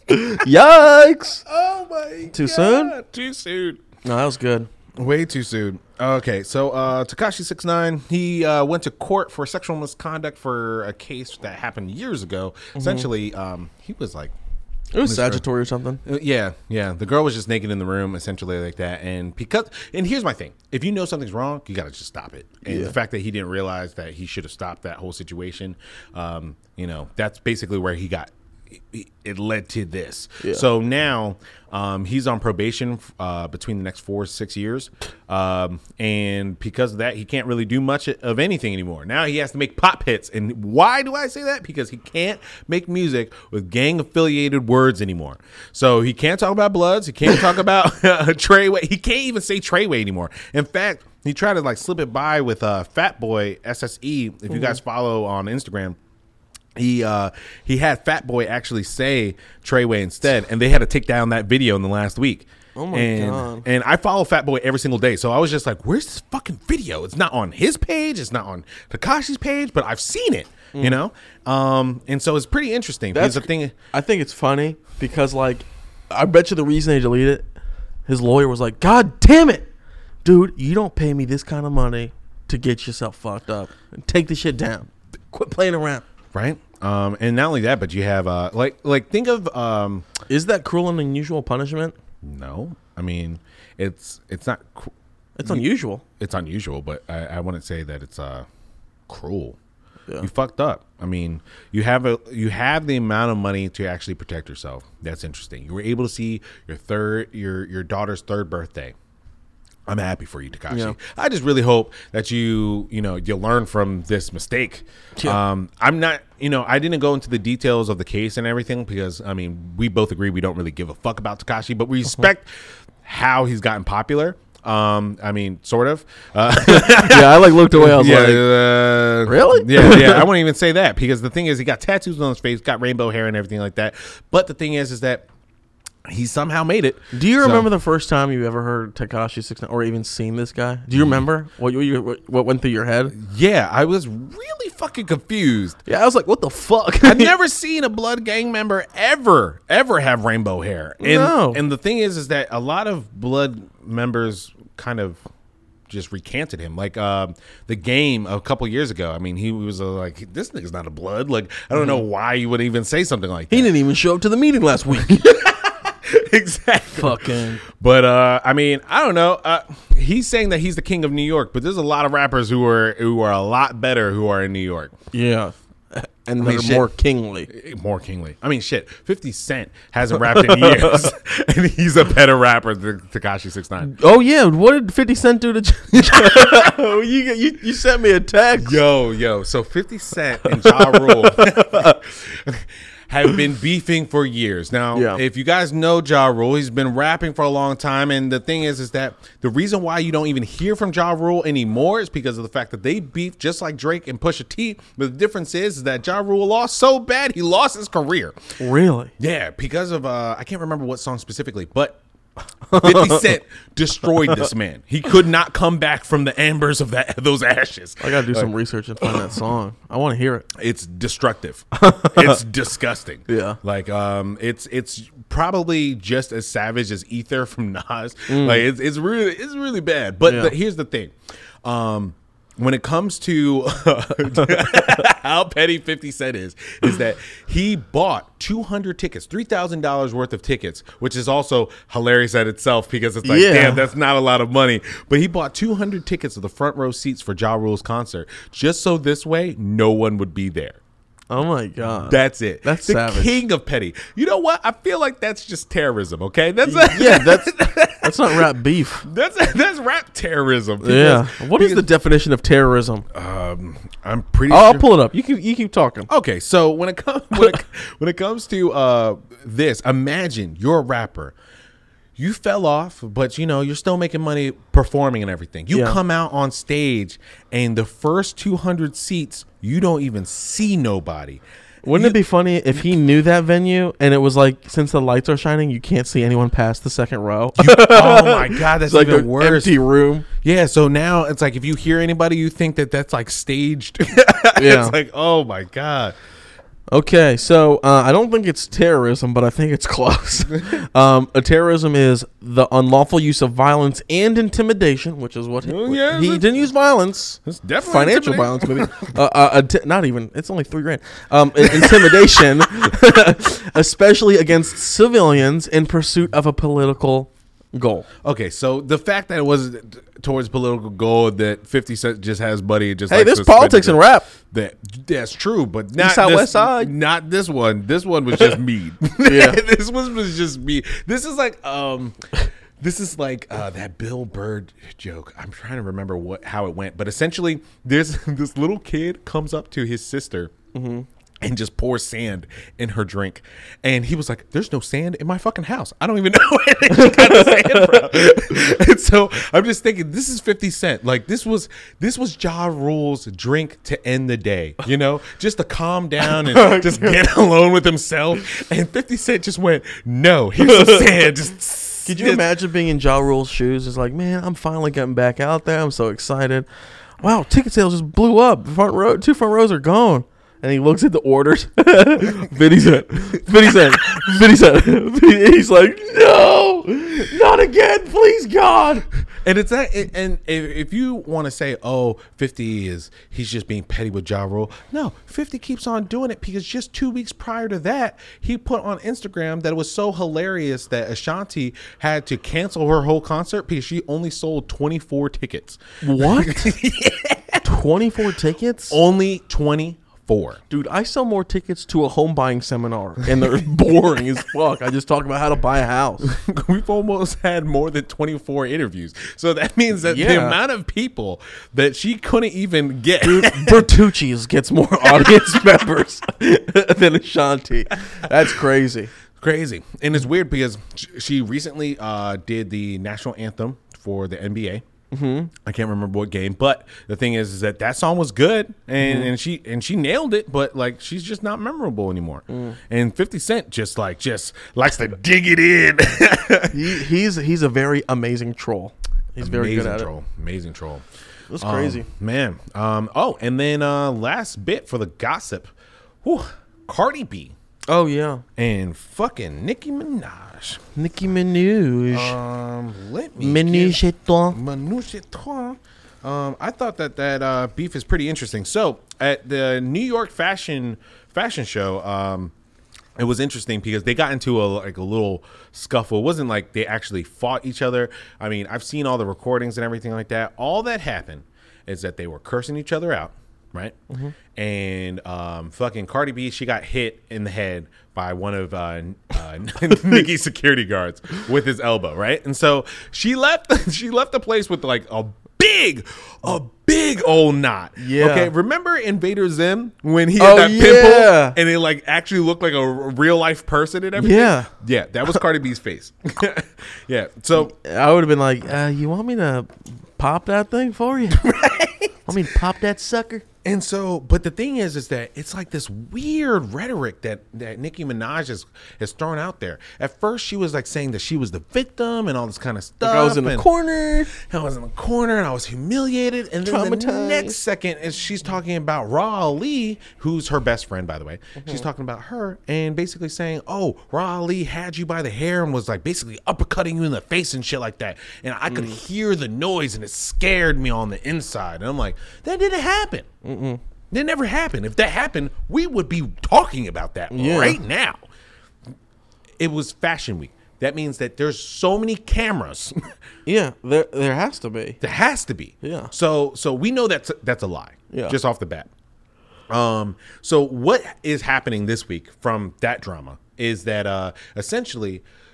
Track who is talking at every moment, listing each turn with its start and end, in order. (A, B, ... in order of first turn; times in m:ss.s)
0:00.1-0:01.4 A
0:01.4-0:03.8 B
0:02.3-0:02.9 A
0:04.0-0:04.7 A
0:05.0-0:14.3 B
0:12.7-0:13.1 A
0:14.9-0:16.0 A
0:15.0-0:15.4 B
0:16.0-0:56.0 B
0:22.6-0:22.9 A
0:30.4-0:30.6 A
0:54.5-0:54.8 A
0:56.8-1:13.7 B
1:02.8-1:03.6 A
1:13.1-1:17.5 A
1:18.1-1:19.7 A
1:20.2-1:26.0 A
1:26.3-1:30.1 B
1:30.3-1:32.0 A
1:32.2-1:34.9 B
1:35.4-1:36.0 A
1:36.2-1:38.5 B
1:39.1-1:39.6 B
1:40.2-1:48.9 B
1:49.9-2:02.5 B
1:50.7-1:51.0 A
2:03.0-2:15.2 B
2:06.7-2:10.3 A
2:16.1-2:17.7 B
2:17.1-2:23.1 A
2:20.9-2:21.2 B
2:23.1-2:25.8 B
2:25.9-2:27.3 A
2:27.0-2:35.2 B
2:31.0-2:31.6 A
2:35.9-2:43.7 B
2:41.7-2:42.0 A
2:43.5-2:45.3 A
2:44.9-2:54.9 B
2:46.9-2:47.6 A
2:55.1-2:57.5 A
2:56.4-2:56.9 B
2:57.5-3:03.9 B
3:00.2-3:01.1 A
3:03.8-3:08.8 A
3:06.0-3:06.7 B
3:08.6-3:28.4 B
3:10.5-3:12.0 A
3:14.9-3:15.2 A
3:28.6-3:29.1 A
3:29.2-3:32.0 B
3:32.7-3:33.3 A
3:32.7-3:38.5 B
3:38.0-3:40.5 A
3:40.6-4:10.8 B
3:41.8-3:42.4 A
3:43.3-3:43.6 A
3:48.3-3:48.6 A
3:50.2-3:50.5 A
4:03.2-4:03.9 A
4:11.3-4:13.4 A
4:12.0-4:18.5 B
4:16.6-4:19.0 A
4:19.0-4:21.9 B
4:20.8-4:23.0 A
4:23.1-4:24.9 B
4:24.5-4:26.1 A
4:26.1-4:31.3 B
4:32.2-4:42.2 B
4:35.7-4:36.0 A
4:41.8-4:50.2 A
4:47.6-4:49.8 B
4:50.4-4:56.2 B
4:54.6-4:55.0 A
4:56.9-5:18.1 A
5:05.6-5:06.6 B
5:07.4-5:09.1 B
5:11.6-5:12.7 B
5:18.2-5:32.2 B
5:23.1-5:24.3 A
5:26.0-5:26.9 A
5:29.2-5:29.6 A
5:32.8-5:40.5 B
5:40.7-5:41.0 A
5:41.4-6:02.4 B
5:46.9-5:48.0 A
5:56.3-5:57.2 A
6:00.6-6:01.1 A
6:02.0-6:06.7 A
6:07.2-6:19.1 A
6:13.6-6:14.0 B
6:19.4-6:37.6 B
6:36.0-6:36.7 A
6:37.6-6:39.0 A
6:38.9-6:40.6 B
6:40.7-6:46.3 A
6:46.2-6:54.0 B
6:50.0-6:50.6 A
6:53.2-6:59.1 A
6:55.1-6:55.4 B
6:59.4-7:04.8 B
7:05.1-7:05.5 A
7:05.6-7:16.9 B
7:09.0-7:09.3 A
7:12.5-7:12.8 A
7:16.7-7:20.1 A
7:19.4-7:21.0 B
7:21.5-7:22.1 A
7:21.6-7:25.7 B
7:26.2-7:27.5 B
7:27.9-7:28.4 A
7:28.6-7:30.8 B
7:31.0-7:32.4 A
7:32.1-7:42.5 B
7:33.4-7:34.6 A
7:43.2-7:54.0 B
7:54.5-8:17.7 B
8:08.0-8:08.5 A
8:10.4-8:11.6 A
8:14.2-8:14.7 A
8:17.5-8:21.5 A
8:21.3-8:22.4 B
8:22.3-8:23.4 A
8:23.6-8:33.7 B
8:33.0-8:34.3 A
8:34.3-8:53.3 B
8:36.6-8:37.6 A
8:41.6-8:41.8 A
8:48.7-8:49.0 A
8:53.4-8:53.8 A
8:54.1-8:58.2 B
8:57.3-8:57.8 A
8:59.6-9:03.1 B
9:03.4-9:05.0 A
9:05.0-9:08.9 B
9:05.8-9:06.1 A
9:08.1-9:08.4 A
9:09.7-9:15.2 B